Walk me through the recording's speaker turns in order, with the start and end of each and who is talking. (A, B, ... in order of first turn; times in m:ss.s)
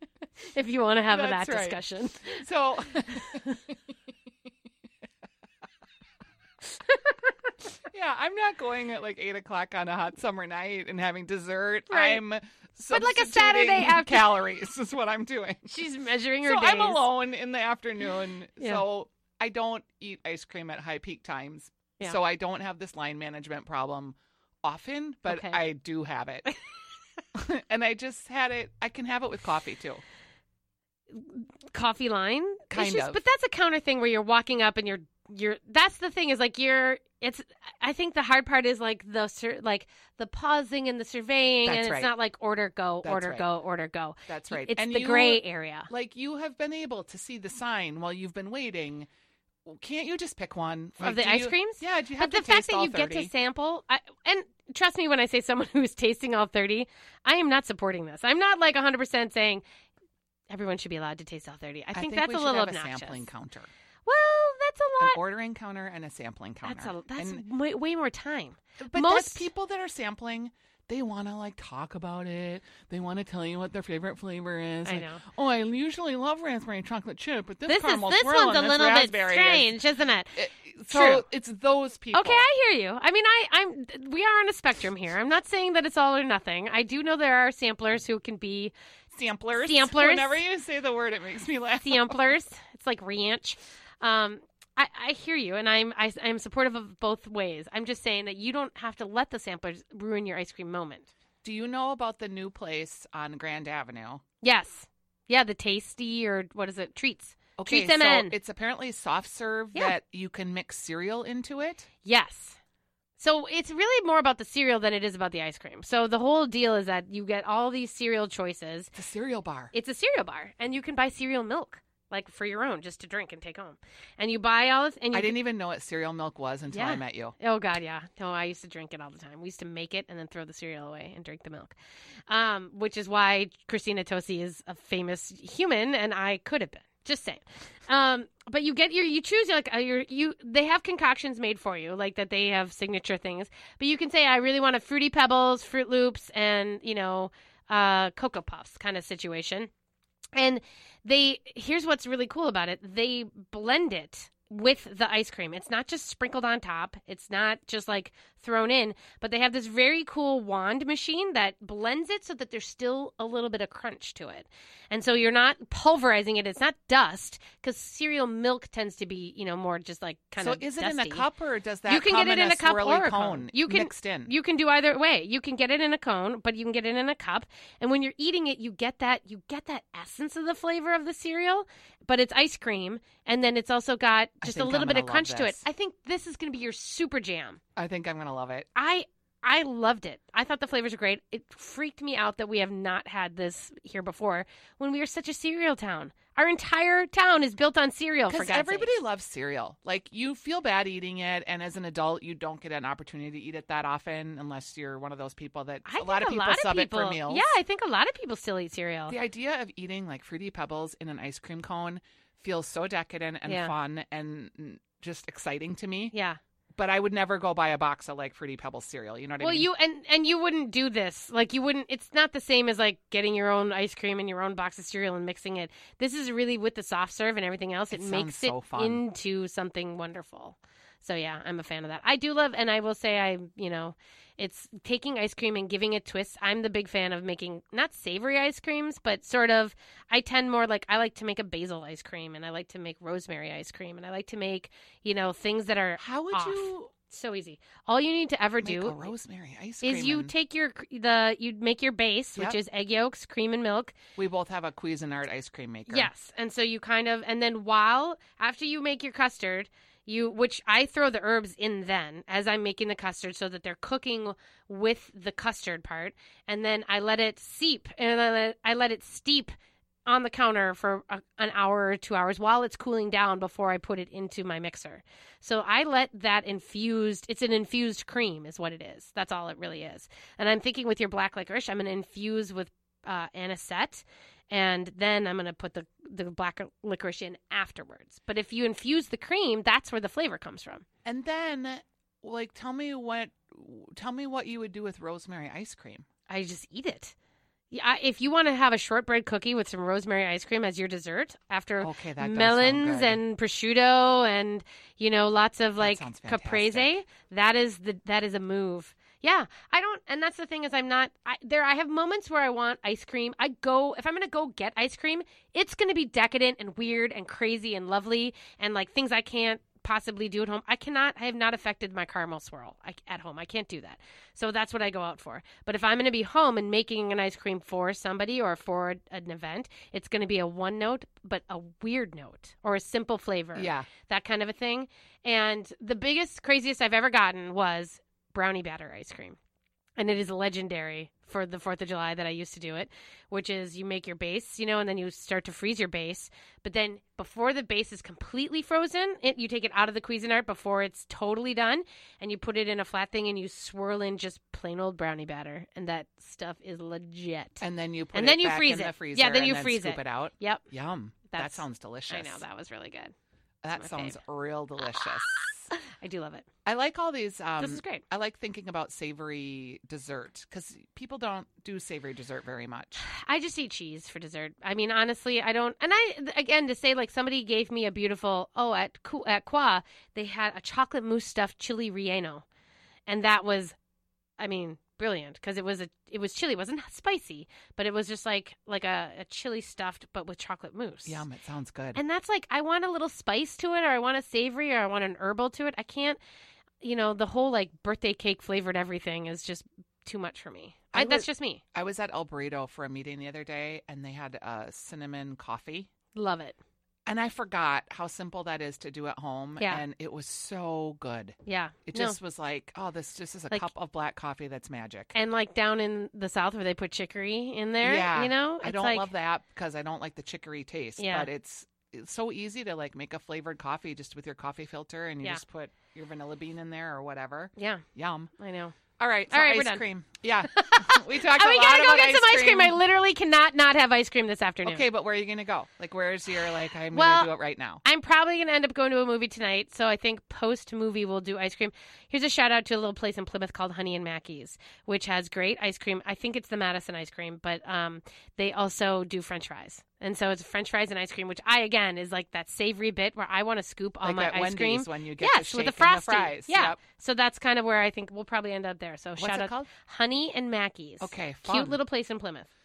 0:00.4-0:02.4 A
0:01.1-0:03.7 B
0:03.1-0:03.6 A
0:06.8-0:07.3 A
0:07.9-0:15.7 B
0:11.9-0:12.2 A
0:12.9-0:14.4 A
0:15.6-0:17.0 A
0:16.4-0:26.5 B
0:25.3-0:25.6 A
0:27.3-0:30.0 B
0:31.1-0:45.9 A
0:32.7-0:33.2 B
0:41.6-0:42.1 B
0:43.0-0:43.5 B
0:44.3-0:49.1 B
0:49.6-0:53.3 B
0:51.0-0:59.6 A
1:00.5-1:03.2 A
1:01.9-1:03.7 B
1:04.0-1:05.2 A
1:05.0-1:07.4 B
1:06.6-1:09.5 A
1:08.8-1:19.7 B
1:14.8-1:15.2 A
1:17.7-1:20.4 A
1:20.3-1:22.4 B
1:20.9-1:21.2 A
1:22.1-1:28.7 A
1:29.1-1:32.2 B
1:29.6-1:30.4 A
1:31.8-1:41.1 A
1:41.4-1:44.2 B
1:44.4-1:48.3 A
1:47.6-1:51.9 B
1:52.0-1:52.6 A
1:53.2-1:58.9 A
1:58.9-1:59.7 B
1:59.7-2:05.4 A
2:05.1-2:07.4 B
2:06.7-2:11.7 A
2:12.3-2:29.7 A
2:30.3-2:51.3 A
2:50.4-2:54.3 B
2:51.9-3:07.6 A
3:04.4-3:05.6 B
3:07.8-3:08.7 B
3:08.7-3:18.9 A
3:18.3-3:27.5 B
3:25.8-3:29.2 A
3:29.1-3:36.1 B
3:33.4-3:33.7 A
3:36.1-3:36.4 A
3:36.7-3:39.7 B
3:39.4-4:09.0 A
3:47.9-3:49.0 B
4:06.0-4:06.9 B
4:08.6-4:10.3 B
4:09.8-4:14.0 A
4:14.2-4:16.1 B
4:15.9-4:29.5 A
4:30.0-4:50.8 A
4:51.0-4:56.1 B
4:56.3-4:57.1 A
4:57.7-5:39.4 A
5:01.8-5:03.2 B
5:05.8-5:06.9 B
5:33.5-5:33.9 B
5:40.0-6:00.6 A
5:57.6-6:02.4 B
6:01.3-6:03.1 A
6:03.6-6:05.7 B
6:03.7-6:04.2 A
6:05.7-6:06.4 A
6:06.6-6:13.0 B
6:07.6-6:08.0 A
6:13.0-6:22.4 A
6:23.1-6:23.8 A
6:24.4-6:31.2 A
6:31.0-6:32.0 B
6:31.9-6:36.2 A
6:36.8-6:41.6 A
6:40.9-6:45.9 B
6:46.1-6:46.6 A
6:47.0-6:55.1 B
6:49.6-6:49.8 A
6:51.4-6:52.2 A
6:55.1-6:59.1 A
6:57.8-7:08.3 B
7:01.0-7:01.3 A
7:07.6-7:07.8 A
7:08.4-7:08.8 A
7:09.0-7:12.8 B
7:09.3-7:09.8 A
7:10.5-7:14.8 A
7:14.6-7:17.8 B
7:16.9-7:17.3 A
7:17.8-7:42.5 A
7:34.0-7:36.8 B
7:39.2-7:39.7 B
7:41.0-7:41.8 B